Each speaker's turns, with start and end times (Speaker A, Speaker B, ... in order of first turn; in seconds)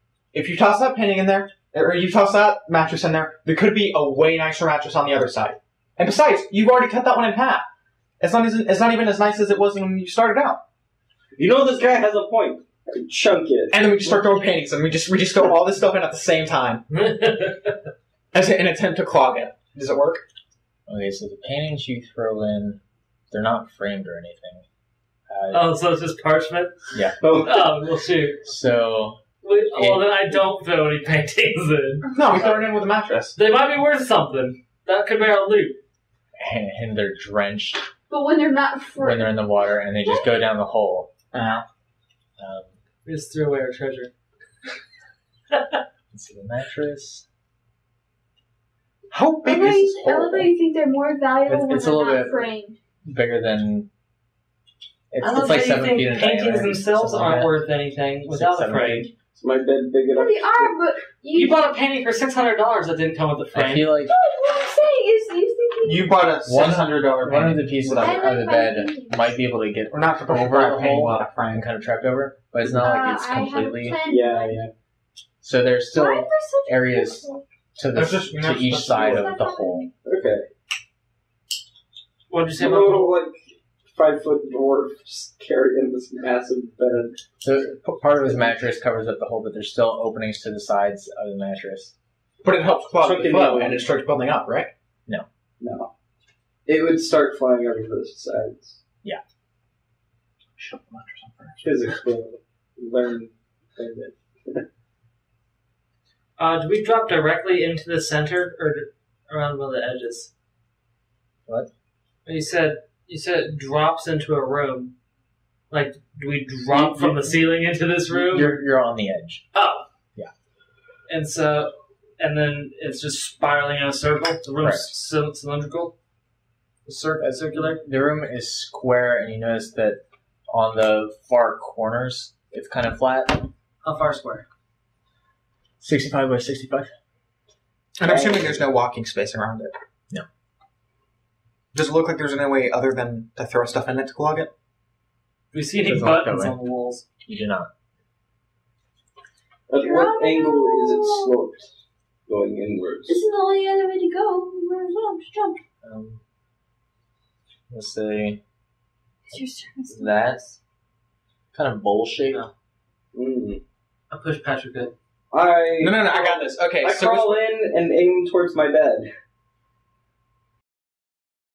Speaker A: 0.3-7.7, 8.2-10.6, 13.7-16.8, 18.3-20.2, 32.1-33.4, 41.3-41.6, 49.1-50.4, 65.8-68.3, 69.9-71.7, 77.9-79.3, 92.4-94.7, 100.6-101.7, 138.0-139.7, 141.7-144.5, 165.8-167.4
Speaker B: 11.4-13.8, 27.2-27.7, 59.4-60.8, 72.7-73.1, 74.0-74.7, 80.0-80.5, 82.6-83.4, 83.9-87.2, 93.0-93.8, 95.6-95.9, 96.7-98.8, 101.6-104.7, 149.7-151.7, 152.3-153.2, 163.1-163.6, 165.3-169.1
Speaker C: 16.9-17.8, 25.5-28.4, 29.4-32.1, 33.4-35.8, 43.0-44.1, 55.2-59.1, 61.3-63.9, 82.3-83.2, 106.4-110.3, 112.2-114.9, 115.7-118.6, 119.5-119.8, 121.1-126.0, 126.9-127.8, 133.8-134.4, 145.5-147.1, 164.1-164.9
Speaker D: 20.9-24.6, 25.3-25.8, 28.4-29.2, 29.7-30.4, 36.4-37.8, 39.0-41.1, 42.4-42.7, 46.1-47.2, 50.1-50.5, 51.5-52.5, 53.0-53.9, 55.1-57.6, 58.2-59.1, 63.5-64.1, 66.5-74.0, 75.4-79.9, 87.4-91.9, 116.7-117.4, 118.1-119.4, 124.6-124.9, 127.2-133.5, 135.8-136.9, 145.8-146.6, 147.2-147.7, 155.8-156.2, 157.7-158.4, 159.9-160.6, 161.5-162.4
Speaker E: 38.1-39.5, 49.4-52.8, 60.1-61.8, 64.1-66.2, 67.8-69.4, 72.7-74.6, 75.9-77.4, 79.0-79.9, 149.8-151.3, 153.1-155.6, 159.3-160.4